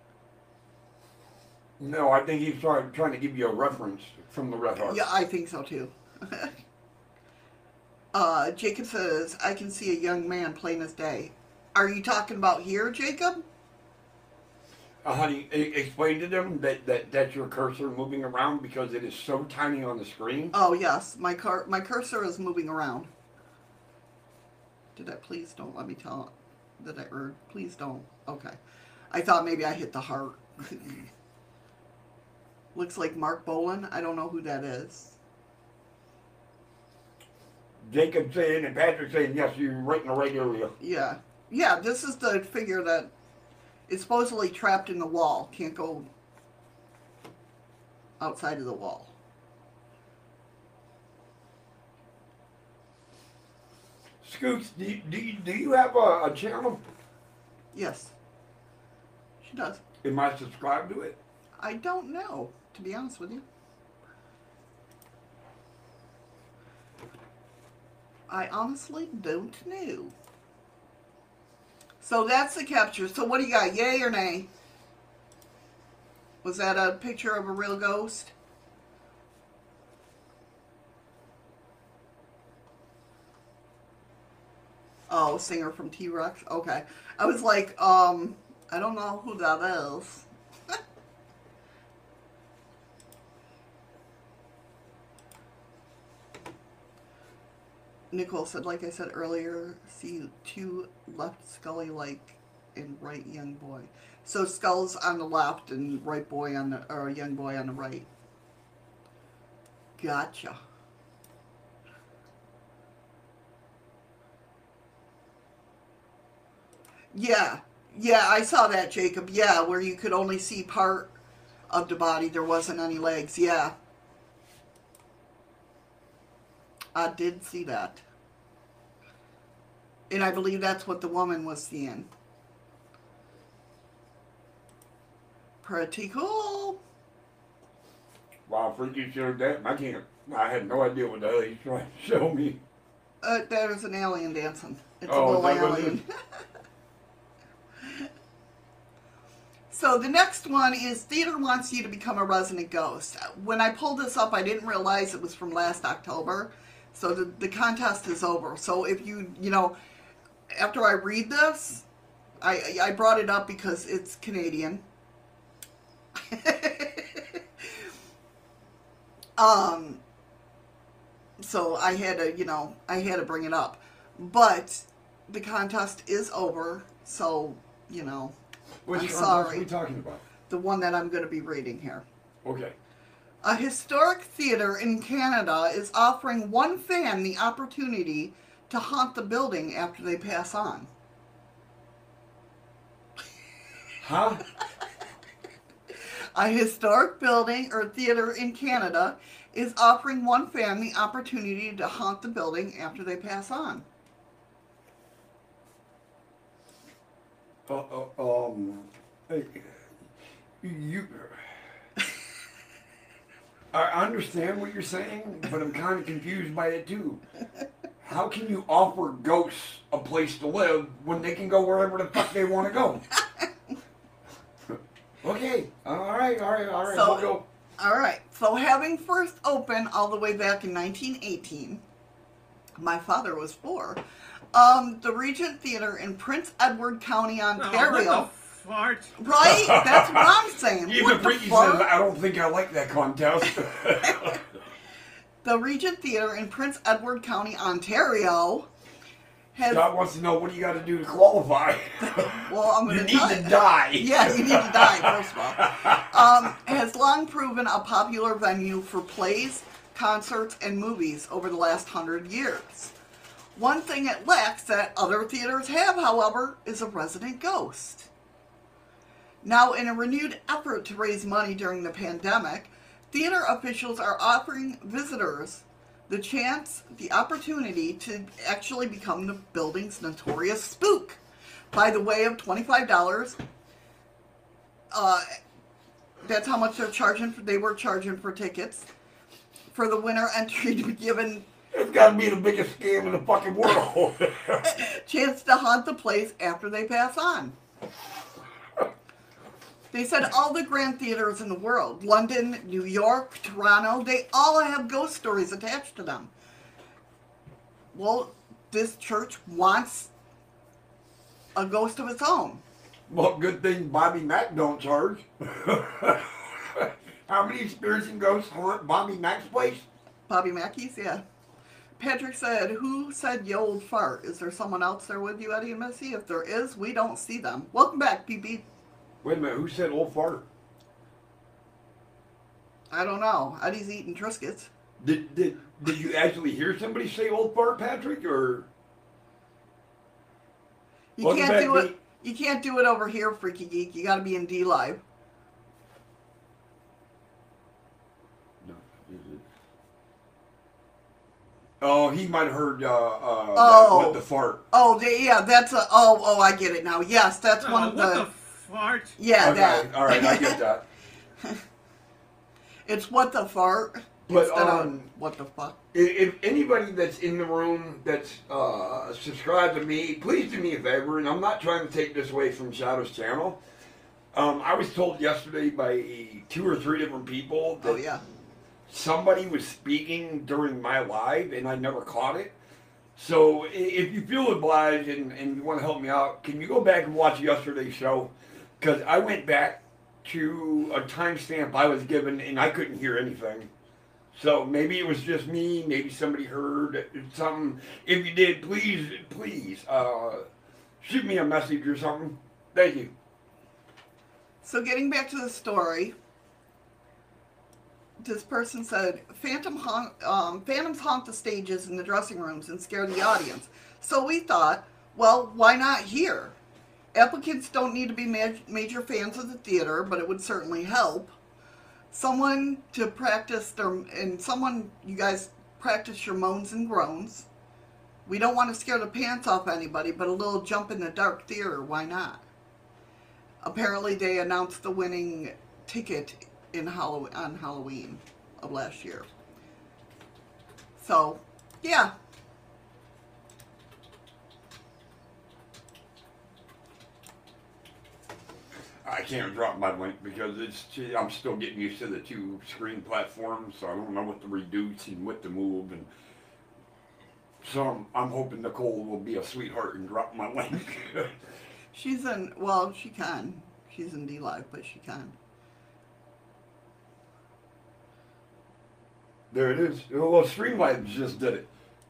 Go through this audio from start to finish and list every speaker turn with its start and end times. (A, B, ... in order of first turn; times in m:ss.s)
0:01.8-0:05.1 A
0:04.8-0:06.5 B
0:08.1-0:13.4 B
0:15.0-0:20.5 A
0:20.5-0:23.1 B
0:25.0-0:28.6 B
0:29.1-0:31.1 B
0:32.8-0:35.2 B
0:37.8-0:40.7 A
0:40.8-0:43.1 B
0:43.9-0:46.1 B
0:48.2-0:49.1 B
0:54.2-0:56.8 A
0:57.7-0:58.1 B
0:59.4-0:59.8 B
1:00.0-1:01.2 A
1:01.6-1:03.4 B
1:08.3-1:10.1 B
1:12.0-1:14.5 B
1:16.4-1:18.3 B
1:25.1-1:30.8 B
1:38.1-1:48.1 B
1:50.0-1:50.6 B
1:57.1-2:01.1 B
2:01.7-2:03.8 B
2:07.0-2:08.0 B
2:10.1-2:12.1 B
2:15.6-2:16.8 B
2:18.5-2:22.6 A
2:23.2-2:26.1 B
2:25.1-2:26.0 A
2:29.7-2:39.8 B
2:40.5-2:41.8 B
2:42.4-2:44.8 B
2:46.2-2:47.4 B
2:49.4-2:50.0 B
2:51.4-2:58.4 B
2:58.9-3:00.2 A
2:58.9-2:59.7 B
3:00.5-3:02.0 B
3:02.4-3:02.8 A
3:03.4-3:10.9 B
3:14.0-3:14.4 A
3:16.4-3:23.8 B
3:27.7-3:29.8 A
3:30.6-3:31.6 A
3:33.7-3:37.2 A
3:38.0-3:43.1 A
3:45.2-3:47.4 A
3:46.9-3:51.8 B
3:52.8-3:54.0 B
3:54.5-3:58.3 B
3:57.6-3:59.2 C
3:59.2-4:01.9 B
3:59.4-4:00.3 A
4:00.8-4:04.4 A
4:05.4-4:08.7 B
4:09.5-4:09.8 B
4:09.7-4:16.5 A
4:12.0-4:22.9 B
4:23.6-4:28.1 B
4:29.4-4:41.2 B
4:41.7-4:43.4 B
4:44.9-4:45.4 B
4:46.2-4:48.9 B
4:49.7-4:51.5 B
4:51.7-4:54.8 A
4:54.7-4:57.6 B
4:59.9-5:06.3 B
5:07.9-5:10.1 B
5:11.6-5:12.6 B
5:13.1-5:19.8 A
5:20.3-5:21.2 B
5:22.0-5:28.6 B
5:29.2-5:30.5 A
5:32.9-5:34.7 B
5:35.0-5:38.7 A
5:41.2-5:45.0 B
5:41.2-5:42.0 A
5:48.6-5:49.4 A
5:51.8-5:54.6 A
5:53.6-5:58.3 B
5:57.6-5:59.2 C
5:59.2-6:00.6 B
5:59.4-6:00.8 A
6:02.9-6:05.8 B
6:04.3-6:05.0 A
6:05.9-6:13.6 A
6:14.3-6:18.0 A
6:17.8-6:18.2 B
6:18.9-6:22.6 A
6:23.2-6:33.7 A
6:34.3-6:40.5 A
6:41.0-6:43.1 A
6:44.6-6:46.2 B
6:48.2-6:56.6 B
6:57.1-7:01.4 B
7:02.1-7:07.5 B
7:08.3-7:12.4 B
7:13.6-7:19.3 B
7:21.0-7:22.1 B
7:29.0-7:36.1 A
7:37.6-7:41.4 A
7:41.9-7:45.4 B
7:49.5-7:51.7 A